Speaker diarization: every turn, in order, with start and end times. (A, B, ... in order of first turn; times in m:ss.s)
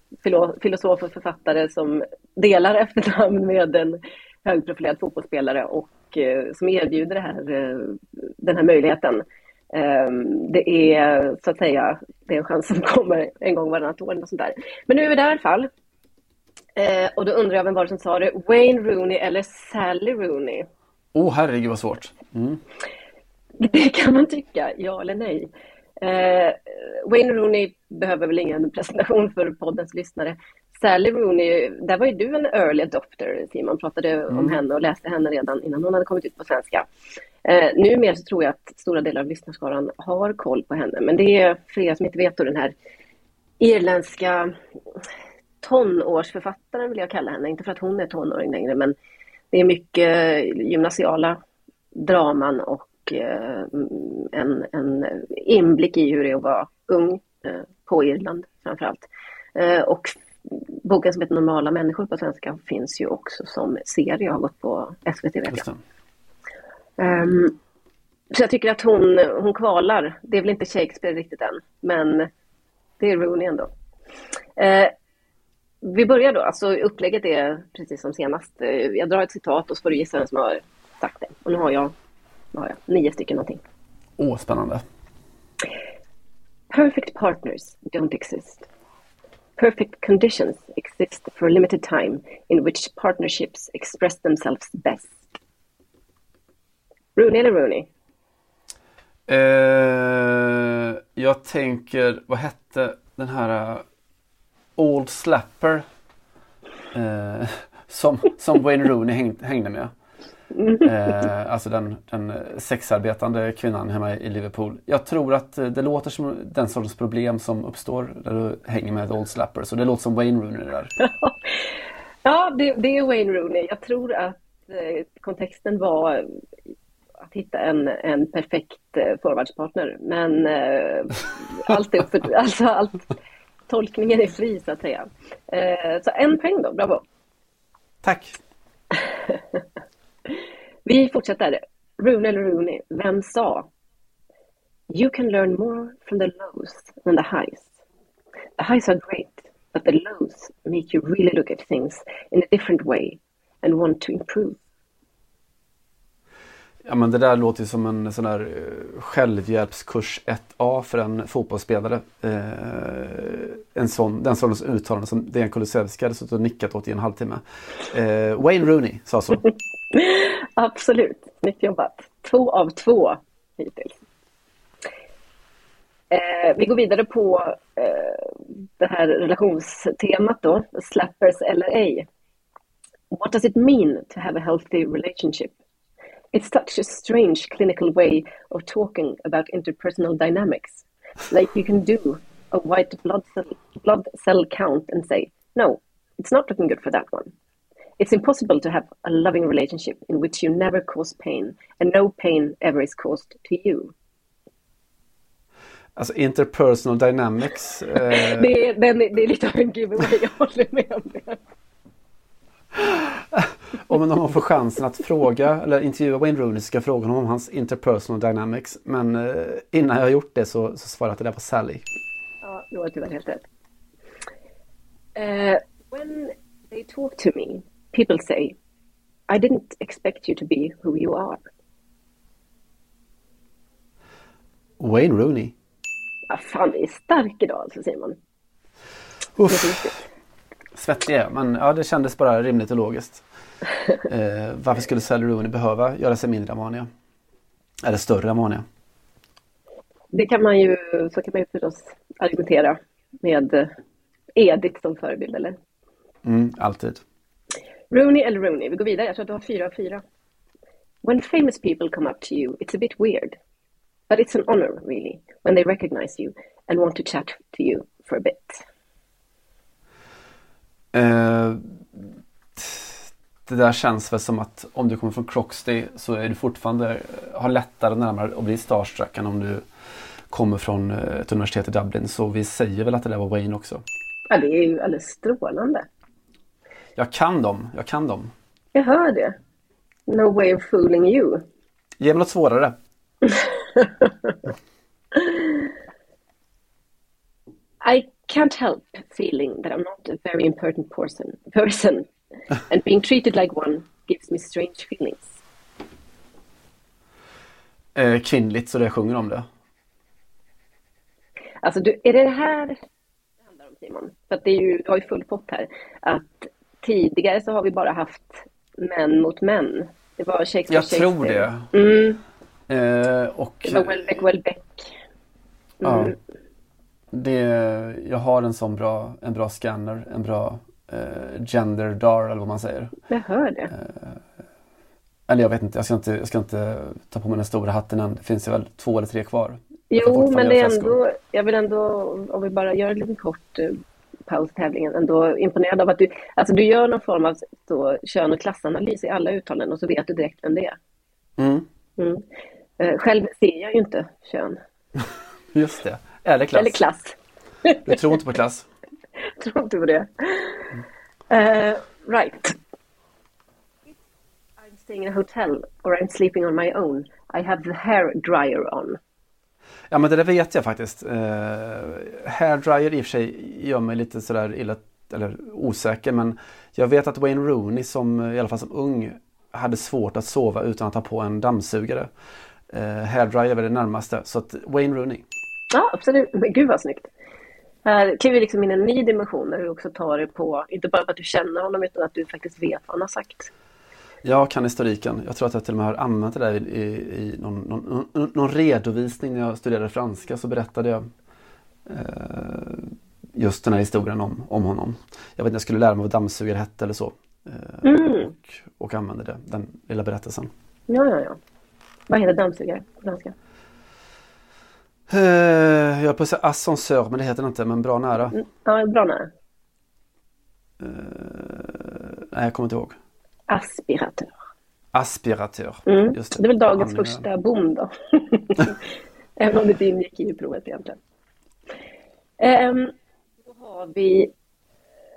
0:00.2-0:15.7 A
0:16.8-0:20.7 A
0:21.1-0:22.6 B
0:23.6-0:25.5 A
0:26.0-0:36.8 A
0:34.3-0:34.6 B
0:37.4-0:42.7 A
0:43.6-0:44.5 A
0:45.6-0:48.9 A
0:49.5-0:51.4 A
0:51.9-1:05.6 A
1:05.5-1:05.8 B
1:07.0-1:07.5 A
1:08.3-1:12.3 A
1:13.0-1:13.7 A
1:14.6-1:14.9 A
1:15.8-1:21.9 A
1:22.5-1:23.6 A
1:24.2-1:24.8 B
1:26.7-1:28.6 A
1:29.6-1:35.2 A
1:37.2-1:37.9 A
1:39.3-1:43.8 B
1:44.8-1:45.8 B
1:46.9-1:49.9 B
1:50.5-1:50.9 A
1:50.8-2:00.9 B
2:01.0-2:01.7 A
2:02.2-2:06.3 A
2:07.3-2:13.0 A
2:13.7-2:17.0 A
2:18.0-2:18.4 B
2:18.9-2:19.4 A
2:20.3-2:23.7 A
2:24.9-2:27.7 A
2:28.6-2:34.6 A
2:36.8-2:49.4 B
2:49.9-2:53.9 A
2:56.1-3:02.1 A
3:03.1-3:05.5 A
3:06.3-3:17.3 A
3:18.0-3:23.9 A
3:26.0-3:28.5 B
3:28.1-3:31.4 A
3:32.8-3:41.8 B
3:42.4-3:43.4 A
3:45.2-3:48.6 A
3:49.3-3:51.4 A
3:54.8-3:55.5 B
3:56.3-3:58.2 A
3:59.4-3:59.9 B
3:59.5-3:59.9 A
4:00.8-4:03.2 B
4:04.1-4:06.9 B
4:07.8-4:08.6 B
4:10.1-4:13.7 A
4:14.4-4:15.6 A
4:16.2-4:17.0 B
4:17.9-4:20.0 A
4:21.0-4:23.4 A
4:24.1-4:28.6 A
4:30.9-4:32.0 B
4:32.6-4:39.6 B
4:40.3-4:43.8 B
4:44.3-4:45.8 A
4:47.0-4:48.3 B
4:48.7-4:49.4 A
4:50.1-4:51.4 A
4:52.0-4:52.8 B
4:53.2-4:54.3 A
4:55.1-4:55.6 A
4:57.8-5:02.1 A
5:02.7-5:05.4 A
5:07.9-5:09.5 B
5:11.6-5:12.8 A
5:13.6-5:22.2 A
5:20.7-5:21.7 B
5:22.7-5:24.1 B
5:23.6-5:24.9 A
5:25.8-5:26.2 A
5:25.8-5:26.1 B
5:27.1-5:32.9 B
5:33.1-5:33.7 A
5:33.7-5:34.2 B
5:35.3-5:41.0 B
5:39.9-5:50.8 A
5:51.4-5:51.7 B
5:52.0-5:52.2 A
5:52.8-5:54.6 A
5:55.5-5:56.8 B
5:56.5-5:57.2 A
5:57.7-5:58.0 A
5:57.8-5:58.7 B
5:59.2-6:00.8 A
6:01.3-6:02.6 A
6:04.6-6:09.0 A
6:09.9-6:22.1 B
6:22.7-6:25.2 B
6:25.7-6:27.1 A
6:27.8-6:33.5 A
6:34.2-6:41.1 B
6:41.9-6:50.5 B
6:47.8-6:48.3 A
6:50.9-6:51.4 A
6:52.1-6:53.3 A
6:55.1-6:58.4 B
6:58.3-6:59.3 A
7:00.8-7:03.0 B
7:03.5-7:04.3 A
7:04.9-7:07.2 B
7:05.9-7:08.8 A
7:09.4-7:11.0 A
7:12.4-7:12.9 A
7:13.5-7:14.3 A